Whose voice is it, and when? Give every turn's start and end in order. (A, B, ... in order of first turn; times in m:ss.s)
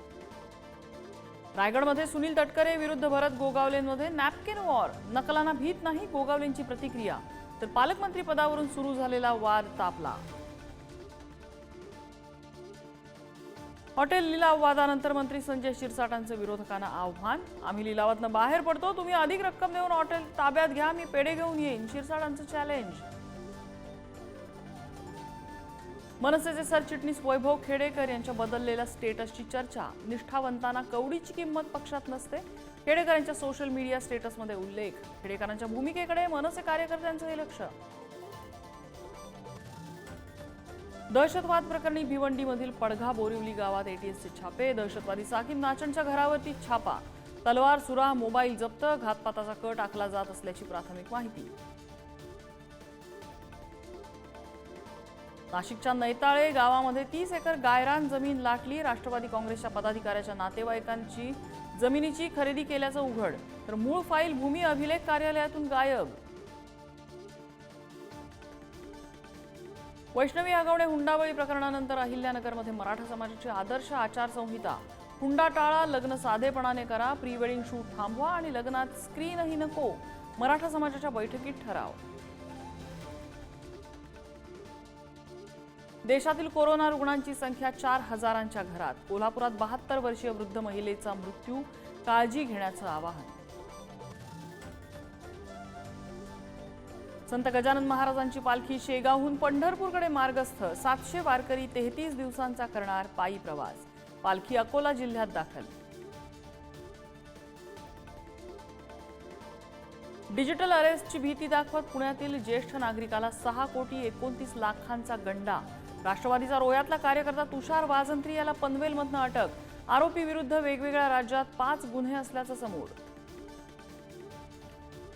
0:01.6-0:10.2 A
0:14.0-0:23.1 A
0:26.2-0:37.8 A
0:41.1-0:51.5 A
0:55.5-1:06.2 A
1:10.1-1:22.0 A
1:26.0-1:33.4 A
1:37.3-1:45.7 A
1:50.3-2:03.0 A